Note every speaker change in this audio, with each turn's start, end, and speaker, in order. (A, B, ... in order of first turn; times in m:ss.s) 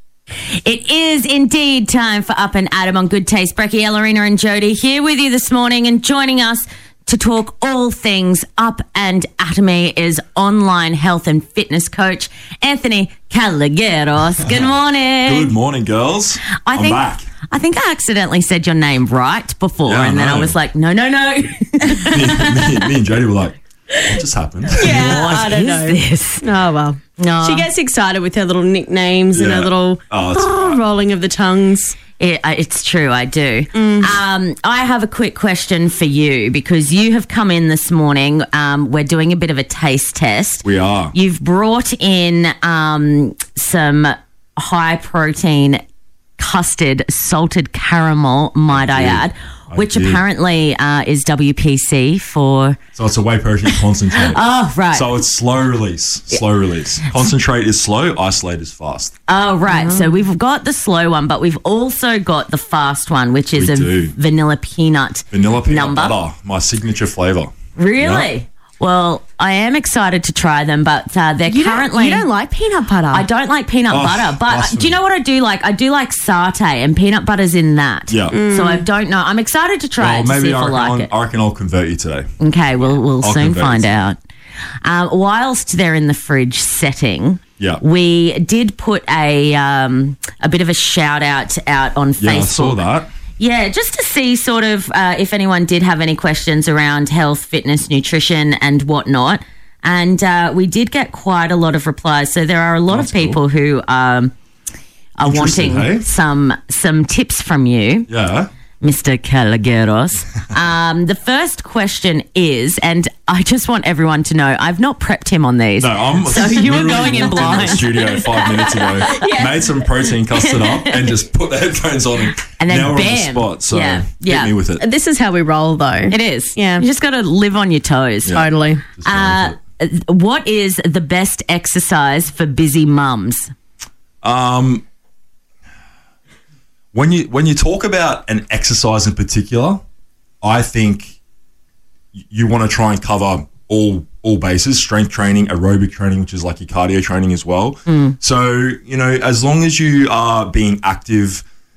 0:00.6-0:15.5 A
0:14.4-0:14.7 B
0:15.2-0:17.3 B
0:16.6-0:22.6 A
0:19.8-0:20.6 B
0:21.9-0:25.4 B
0:24.7-0:32.0 C
0:24.8-0:26.5 A
0:27.2-0:27.7 A
0:29.3-0:30.8 B
0:32.2-0:45.8 A
0:33.7-0:34.2 C
0:40.6-0:41.1 B
0:46.4-0:52.8 A
0:48.7-0:50.2 B
0:53.0-0:59.1 B
0:53.7-0:55.2 A
0:59.3-1:06.2 A
0:59.7-1:00.1 C
1:03.5-1:04.2 B
1:05.3-1:08.3 B
1:07.8-1:12.3 A
1:11.5-1:13.3 C
1:13.1-1:21.1 A
1:13.9-1:15.0 B
1:18.1-1:18.4 B
1:18.3-1:18.9 C
1:20.0-1:22.3 B
1:22.4-1:24.2 A
1:23.2-1:23.9 B
1:24.8-1:32.8 A
1:32.2-1:33.1 B
1:33.4-1:44.3 A
1:42.9-1:43.4 B
1:45.2-1:48.1 A
1:45.2-1:46.1 B
1:48.1-1:48.5 B
1:48.8-1:59.3 A
1:55.8-2:04.9 B
1:56.3-1:58.0 C
1:59.0-1:59.5 C
2:00.3-2:01.2 A
2:02.5-2:04.5 A
2:04.8-2:06.8 C
2:06.1-2:08.4 A
2:08.2-2:09.6 B
2:08.3-2:08.9 C
2:09.0-2:13.5 A
2:14.2-2:14.8 B
2:16.9-2:19.8 B
2:20.4-2:21.2 B
2:22.2-2:31.4 B
2:27.9-2:28.2 A